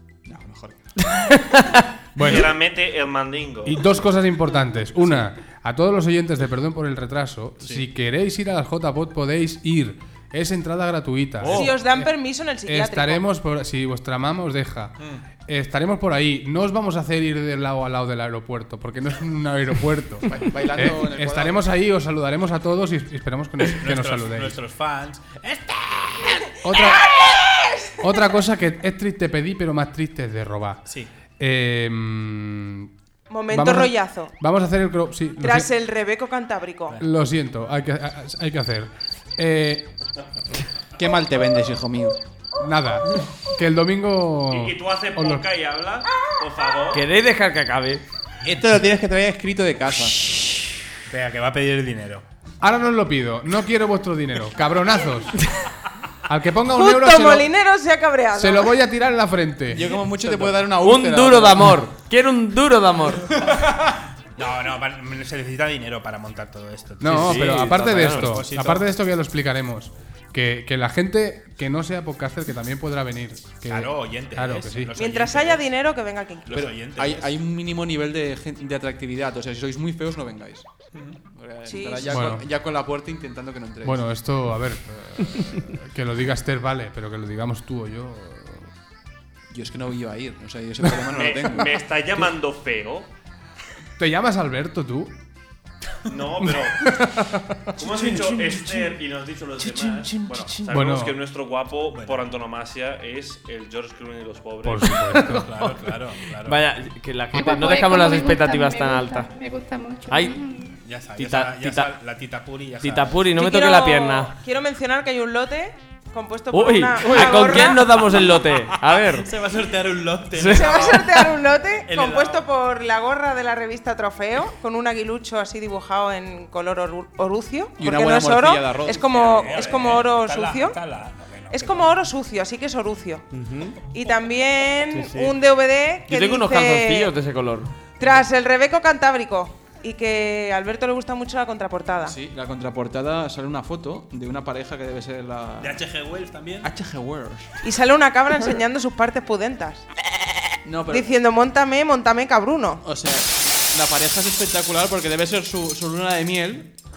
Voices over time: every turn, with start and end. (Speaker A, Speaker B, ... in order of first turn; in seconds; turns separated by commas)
Speaker A: 0.2-0.9, Speaker B: 2.1-2.5, Speaker C: 2.2-3.8, Speaker B: 3.6-12.1, Speaker D: 11.5-13.2, Speaker B: 12.7-24.6, Speaker E: 15.0-15.2, Speaker A: 20.2-21.6, Speaker E: 23.7-26.4, Speaker B: 26.6-27.1, Speaker D: 26.8-27.9, Speaker B: 28.0-30.8, Speaker B: 31.4-32.9, Speaker D: 33.3-34.3, Speaker B: 33.5-35.7, Speaker D: 35.4-37.0, Speaker B: 37.0-39.9, Speaker A: 41.0-42.2, Speaker B: 42.6-45.4, Speaker C: 44.5-47.0, Speaker F: 46.9-48.0, Speaker A: 48.4-50.2, Speaker E: 51.1-52.2, Speaker B: 52.6-55.4, Speaker B: 56.3-57.5, Speaker D: 56.7-58.7, Speaker B: 58.3-59.9, Speaker A: 59.7-61.8, Speaker F: 60.2-63.3, Speaker E: 64.3-68.9, Speaker B: 67.0-74.9, Speaker F: 67.1-68.3, Speaker E: 73.7-75.7, Speaker D: 74.9-76.6, Speaker E: 76.5-77.3, Speaker A: 76.5-80.7, Speaker E: 80.9-81.2, Speaker A: 81.3-84.1, Speaker D: 81.7-82.2, Speaker B: 82.1-82.4, Speaker B: 83.8-88.7, Speaker A: 89.5-91.8, Speaker C: 91.1-93.1, Speaker B: 94.0-95.1, Speaker C: 96.1-96.8, Speaker B: 96.7-97.2, Speaker C: 97.8-105.1, Speaker A: 100.1-100.5, Speaker B: 100.7-101.2, Speaker E: 101.9-102.2, Speaker B: 104.6-105.5, Speaker E: 105.2-106.6, Speaker F: 106.4-109.3, Speaker G: 107.3-110.8, Speaker F: 110.1-110.4, Speaker E: 110.8-113.2, Speaker F: 111.2-111.9, Speaker F: 112.8-114.3, Speaker D: 113.3-117.9, Speaker F: 116.5-119.3, Speaker E: 119.0-121.3, Speaker F: 120.4-121.0, Speaker D: 120.5-130.8, Speaker E: 121.8-122.5, Speaker A: 127.8-129.3, Speaker E: 129.0-131.9, Speaker D: 131.5-133.2, Speaker F: 133.3-133.8, Speaker D: 133.9-137.1, Speaker F: 134.9-135.3, Speaker F: 136.1-137.7, Speaker D: 138.0-142.2, Speaker A: 142.0-145.8, Speaker E: 145.6-146.7, Speaker A: 146.6-147.5, Speaker D: 147.6-149.8, Speaker A: 150.6-151.1, Speaker D: 150.9-152.8, Speaker A: 152.8-156.7